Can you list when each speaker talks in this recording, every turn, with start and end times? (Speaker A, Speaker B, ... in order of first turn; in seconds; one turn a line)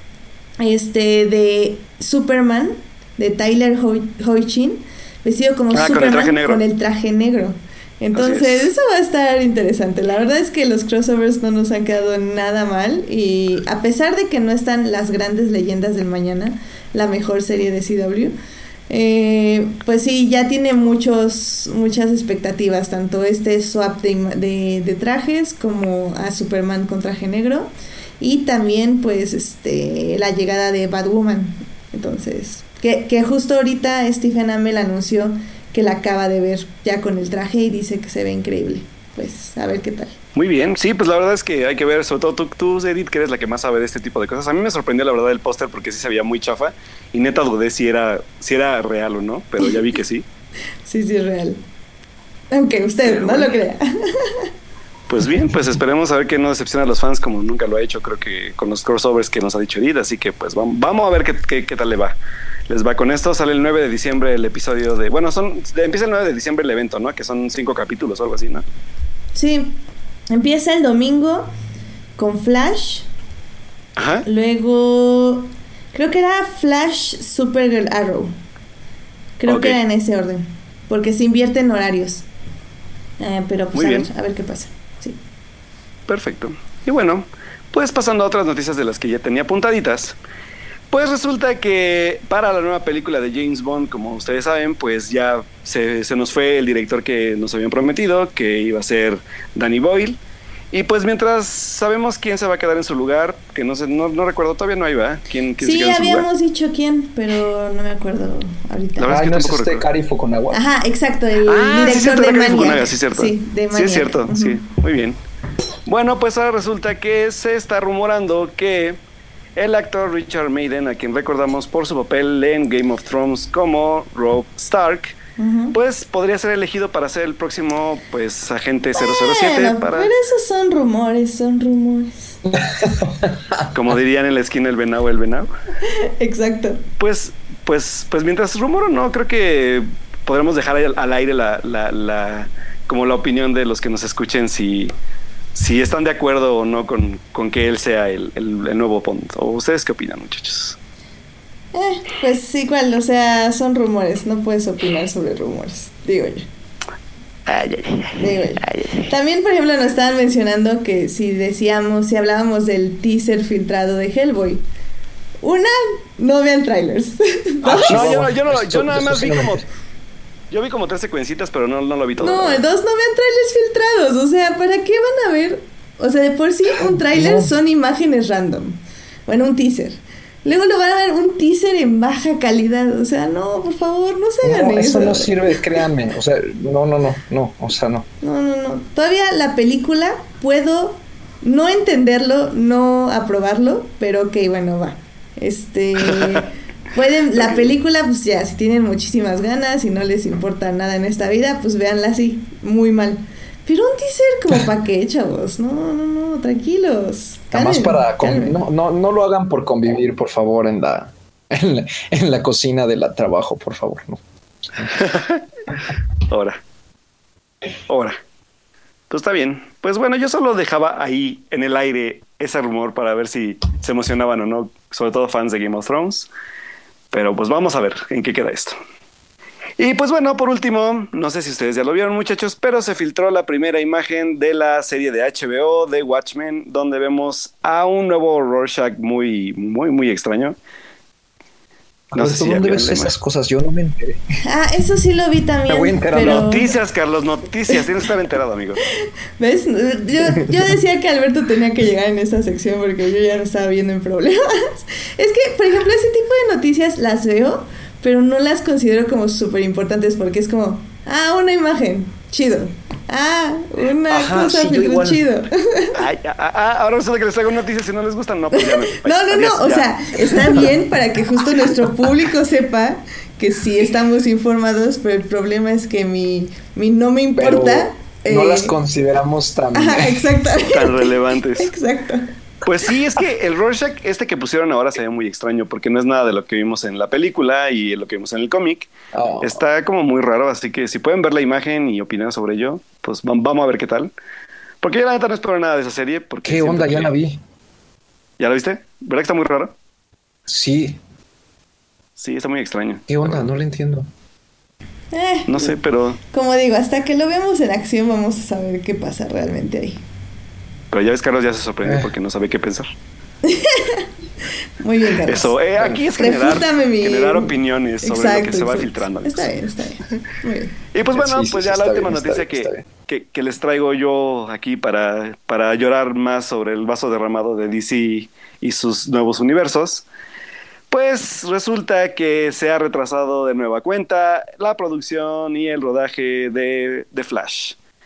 Speaker A: 0.6-18.4
Speaker B: 5.7-6.6
Speaker B: 8.2-8.7
Speaker A: 18.9-40.2
Speaker B: 40.4-50.2
Speaker A: 50.9-51.6
Speaker A: 52.5-54.5
Speaker B: 53.0-53.5
Speaker B: 55.1-62.2
Speaker B: 62.7-68.7
Speaker A: 69.3-69.8
Speaker A: 70.3-71.5
Speaker A: 72.2-73.1
Speaker B: 74.0-74.3
Speaker A: 74.2-78.3
Speaker A: 79.4-82.3
Speaker B: 79.5-79.8
Speaker A: 83.2-85.2
Speaker B: 83.8-84.1
Speaker B: 86.1-90.2
Speaker B: 90.9-100.2
Speaker B: 100.7-106.3
Speaker A: 105.6-109.2
Speaker B: 109.0-109.9
Speaker C: 109.1-110.6
Speaker A: 110.5-114.6
Speaker B: 111.5-115.2
Speaker B: 115.9-119.0
Speaker B: 119.6-125.2
Speaker A: 125.4-125.8
Speaker B: 125.7-130.1
Speaker A: 129.0-132.4
Speaker C: 132.5-133.7
Speaker B: 133.7-135.5
Speaker A: 135.9-136.8
Speaker B: 137.0-144.9
Speaker B: 145.6-150.8
Speaker A: 151.7-156.5
Speaker B: 157.5-159.1
Speaker A: 158.2-164.6
Speaker A: 165.4-168.1
Speaker C: 167.6-169.6
Speaker B: 167.9-169.7
Speaker B: 170.5-172.6
Speaker A: 172.2-185.5
Speaker C: 176.8-177.5
Speaker C: 184.4-188.1
Speaker A: 188.2-208.6
Speaker B: 196.1-196.4
Speaker B: 197.4-197.7
Speaker C: 207.5-214.2
Speaker B: 214.9-215.4
Speaker B: 216.3-216.6
Speaker B: 217.9-218.2
Speaker B: 219.1-226.3
Speaker B: 227.1-228.8
Speaker B: 229.8-240.6
Speaker C: 242.1-244.2
Speaker B: 242.2-243.1
Speaker A: 244.4-246.7
Speaker C: 245.7-246.5
Speaker B: 246.2-248.8
Speaker A: 249.4-266.0
Speaker C: 264.1-265.2
Speaker B: 265.9-270.7
Speaker A: 268.5-278.8
Speaker C: 277.4-280.3
Speaker A: 279.7-282.3
Speaker B: 280.6-281.7
Speaker B: 282.6-294.1
Speaker C: 289.1-289.6
Speaker B: 294.8-297.1
Speaker C: 296.4-297.4
Speaker B: 298.4-299.7
Speaker C: 300.5-301.0
Speaker B: 302.2-303.5
Speaker C: 303.1-304.1
Speaker A: 305.1-305.8
Speaker B: 305.5-306.2
Speaker A: 306.3-310.0
Speaker B: 310.9-312.9
Speaker C: 311.8-312.1
Speaker A: 313.4-314.1
Speaker A: 314.8-315.6
Speaker B: 315.2-319.5
Speaker A: 316.1-320.8
Speaker B: 320.9-330.1
Speaker C: 321.1-322.9
Speaker B: 330.9-337.8